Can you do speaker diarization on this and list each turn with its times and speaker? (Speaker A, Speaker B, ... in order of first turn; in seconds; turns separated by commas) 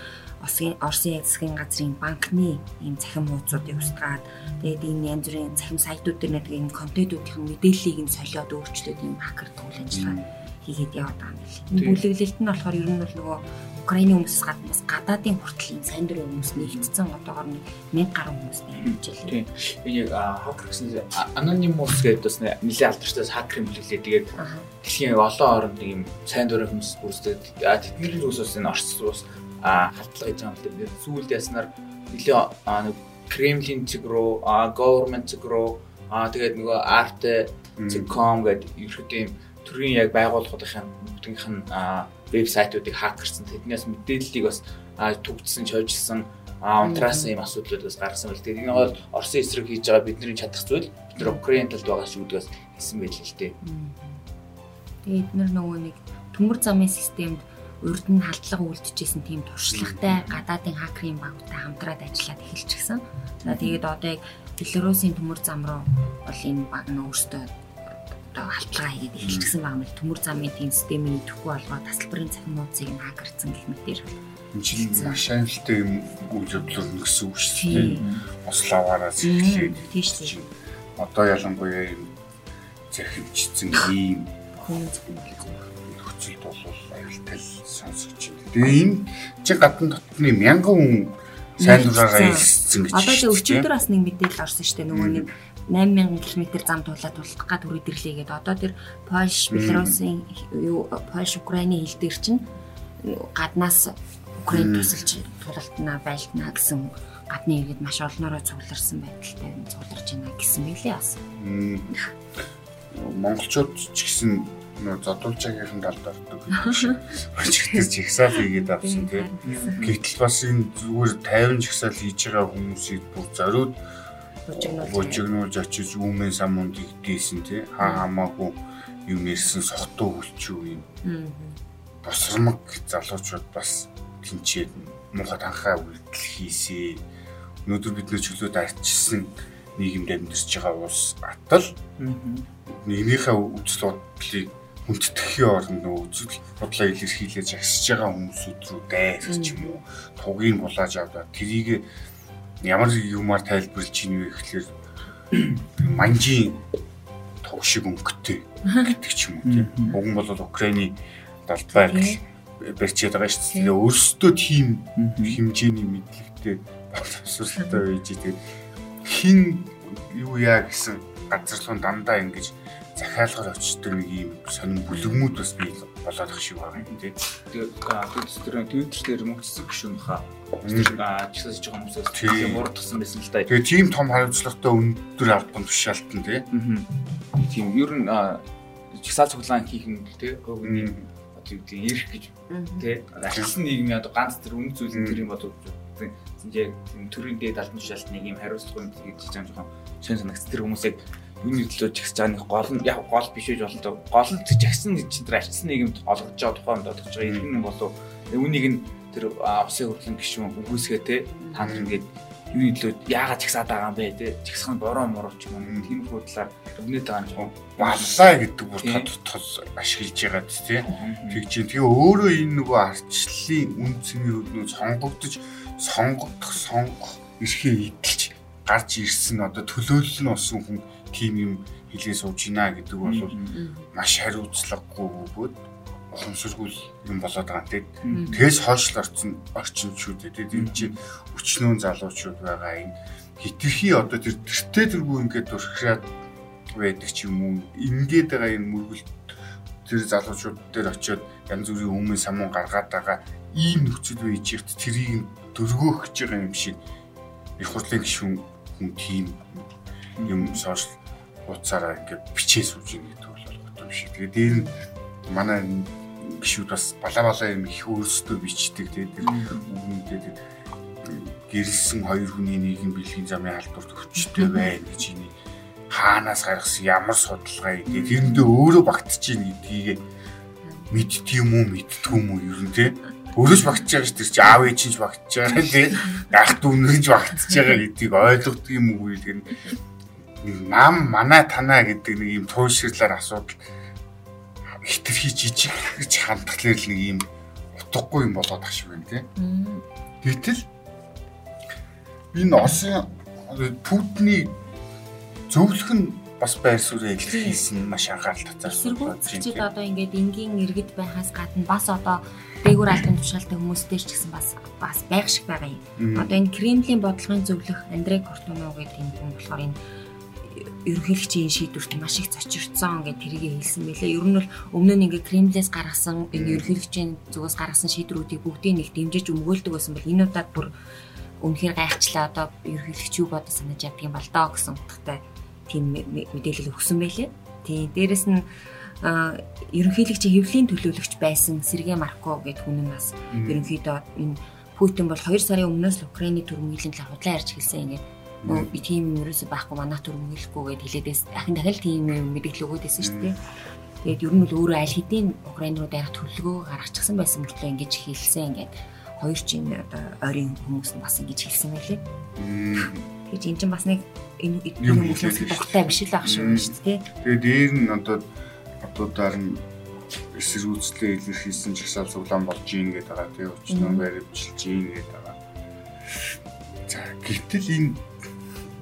Speaker A: 0.4-19.4, Speaker B: 9.9-10.3, Speaker C: 11.8-12.0, Speaker C: 16.6-16.9, Speaker C: 18.8-53.6, Speaker A: 24.4-24.7, Speaker B: 37.8-38.1, Speaker A: 46.8-47.3, Speaker A: 53.6-54.2, Speaker A: 55.0-67.5, Speaker B: 59.7-60.3, Speaker A: 68.2-74.2, Speaker B: 69.2-69.5, Speaker B: 74.5-82.2, Speaker A: 74.7-75.2, Speaker A: 77.5-78.1, Speaker C: 77.7-78.2, Speaker A: 79.2-80.4, Speaker B: 82.9-84.4, Speaker A: 84.6-85.7, Speaker B: 85.8-93.7, Speaker A: 91.6-102.4, Speaker B: 94.9-95.3, Speaker B: 99.5-100.0, Speaker A: 103.0-111.2, Speaker B: 104.5-105.0, Speaker B: 111.4-111.9, Speaker B: 112.9-123.8, Speaker A: 116.5-117.0, Speaker A: 118.8-119.9, Speaker C: 119.4-120.0, Speaker A: 124.5-125.3, Speaker B: 124.6-130.9, Speaker A: 127.8-128.1, Speaker A: 131.0-131.6, Speaker B: 132.0-137.0, Speaker B: 137.7-141.8, Speaker C: 142.0-142.5, Speaker B: 142.7-151.9, Speaker A: 149.2-149.8, Speaker B: 152.6-154.7, Speaker B: 155.6-156.6, Speaker B: 157.4-168.4, Speaker A: 158.7-158.9, Speaker C: 159.4-159.9, Speaker A: 161.7-162.2, Speaker C: 165.0-165.4, Speaker B: 169.0-177.2, Speaker A: 174.9-175.2, Speaker C: 177.5-183.5, Speaker B: 180.6-181.0, Speaker B: 182.1-182.7, Speaker B: 183.5-186.5, Speaker C: 186.5-219.1, Speaker B: 190.6-191.1, Speaker A: 192.5-192.9, Speaker B: 194.9-195.2, Speaker B: 207.2-207.5, Speaker A: 211.4-211.7, Speaker B: 211.6-212.0, Speaker B: 215.6-216.0, Speaker B: 217.4-233.4, Speaker C: 220.9-221.4, Speaker C: 233.0-233.6, Speaker A: 233.5-233.9, Speaker B: 233.9-246.1, Speaker C: 238.0-238.4, Speaker A: 238.1-238.4, Speaker C: 240.5-240.9, Speaker B: 246.7-249.3, Speaker B: 249.8-256.8, Speaker B: 257.6-259.7, Speaker C: 260.2-260.6, Speaker B: 260.3-264.7, Speaker A: 264.4-264.8, Speaker B: 265.3-270.4, Speaker C: 269.2-269.7, Speaker B: 271.0-275.3, Speaker A: 274.3-274.7, Speaker B: 275.9-280.0, Speaker C: 277.9-278.4, Speaker B: 280.9-289.6, Speaker B: 290.4-293.7, Speaker B: 294.7-299.3, Speaker A: 299.4-299.8, Speaker B: 300.2-300.7, Speaker B: 302.3-304.6, Speaker B: 305.5-309.7, Speaker A: 307.3-307.6, Speaker A: 308.7-319.8, Speaker B: 316.0-316.4, Speaker A: 320.4-330.7, Speaker B: 326.3-326.7, Speaker A: 331.4-353.4, Speaker B: 343.3-343.7, Speaker B: 348.4-348.7, Speaker B: 353.0-353.3, Speaker A: 354.0-362.0, Speaker B: 362.4-363.1, Speaker A: 363.3-367.1, Speaker B: 364.8-368.3, Speaker B: 368.8-375.4, Speaker A: 373.7-374.1, Speaker B: 376.1-378.1